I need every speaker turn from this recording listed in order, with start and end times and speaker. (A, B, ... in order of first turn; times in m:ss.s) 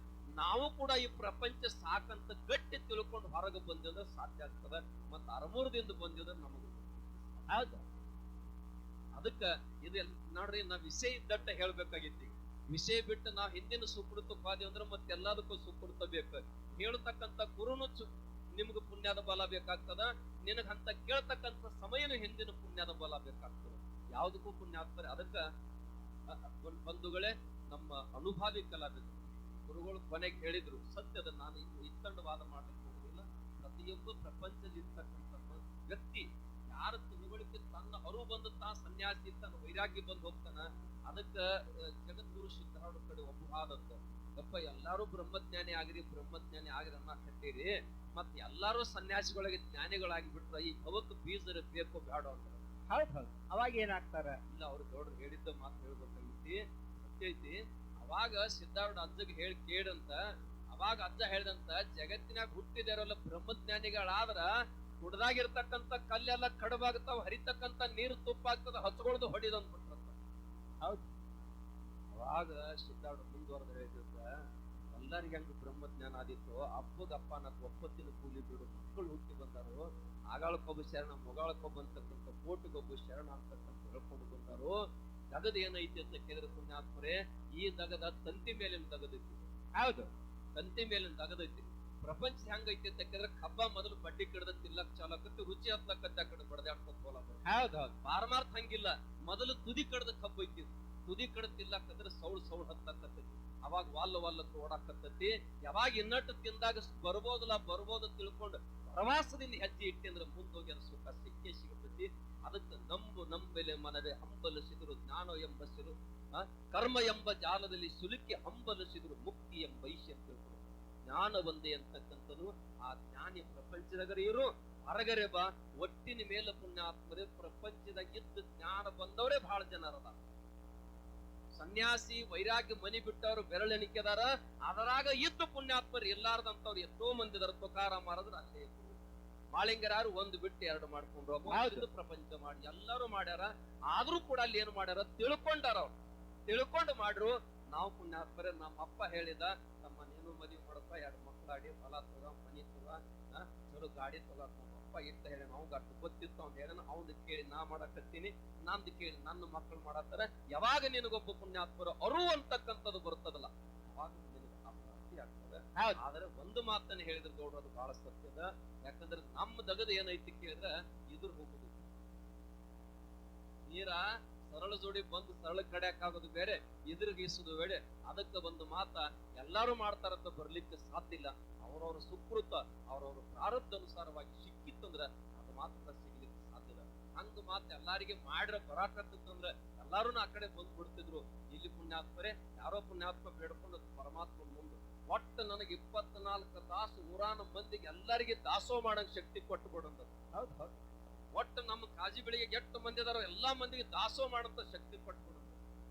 0:00.4-0:07.5 A
0:07.5-0:07.8 B
0:09.2-0:25.4 A
0:26.3-0:52.6 A
0:52.9-0:54.4 B
0:54.5-1:10.2 A
1:12.1-1:14.3 A
1:14.9-1:24.8 A
1:25.3-1:29.4 A
1:29.8-1:30.1 B
1:30.5-1:37.4 A
1:37.5-1:37.9 B
1:38.0-2:10.3 A
2:11.6-2:19.0 A
2:19.5-2:25.9 A
2:21.5-2:21.8 B
2:26.5-2:51.8 A
2:53.6-3:20.1 A
3:20.3-3:20.8 B
3:21.3-3:25.6 A